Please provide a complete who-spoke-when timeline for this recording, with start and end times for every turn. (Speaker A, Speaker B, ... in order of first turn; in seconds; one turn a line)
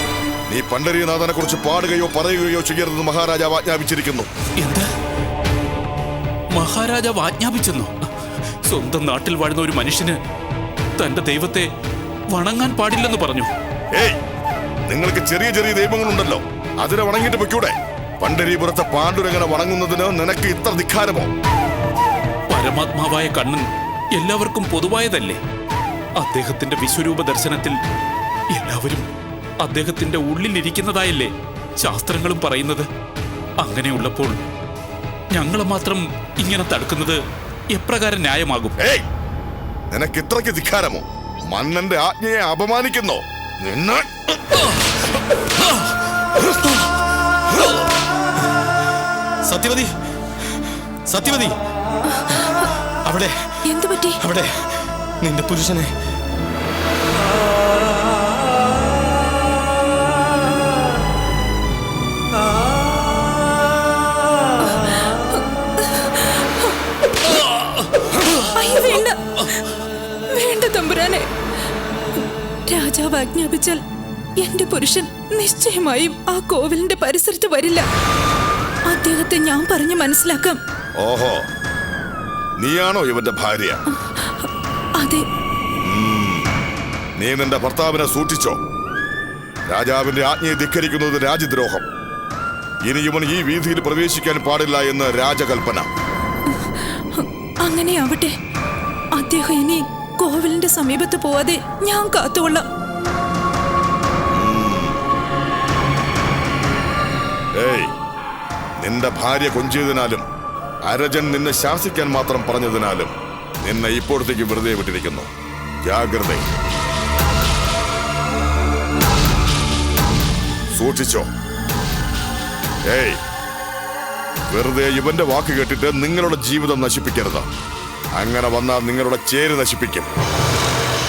Speaker A: 0.5-4.3
Speaker B: 4.6-4.9
Speaker B: 6.5-7.9
Speaker B: 8.7-10.2
Speaker B: 11.0-11.7
Speaker B: 12.3-13.5
Speaker A: 13.9-14.2
Speaker A: 14.9-21.3
Speaker B: 22.5-25.4
Speaker B: 26.2-27.8
Speaker B: 28.5-29.1
Speaker B: 29.6-32.9
Speaker B: 33.6-34.4
Speaker B: 35.3-37.2
Speaker B: 37.7-38.8
Speaker A: 38.8-39.0
Speaker A: 39.9-44.7
Speaker C: 49.5-49.9
Speaker C: 51.1-51.5
Speaker D: 52.1-52.7
Speaker C: 53.0-53.3
Speaker D: 53.6-54.2
Speaker C: 54.2-54.6
Speaker C: 55.2-55.9
Speaker D: 64.6-66.8
Speaker D: 68.4-69.6
Speaker D: 70.3-71.3
Speaker D: 72.7-73.8
Speaker D: 74.4-77.8
Speaker D: 78.9-80.6
Speaker A: 81.0-81.4
Speaker A: 82.6-83.8
Speaker D: 84.0-84.5
Speaker D: 85.0-85.2
Speaker A: 85.8-86.5
Speaker A: 87.2-88.6
Speaker A: 89.7-91.8
Speaker A: 92.8-95.9
Speaker D: 96.5-98.3
Speaker D: 99.2-102.6
Speaker A: 104.3-105.0
Speaker A: 107.5-107.9
Speaker A: 108.8-110.2
Speaker A: 110.8-115.3
Speaker A: 115.8-116.4
Speaker A: 120.7-121.3
Speaker A: 122.9-123.2
Speaker A: 124.5-127.4
Speaker A: 128.2-130.1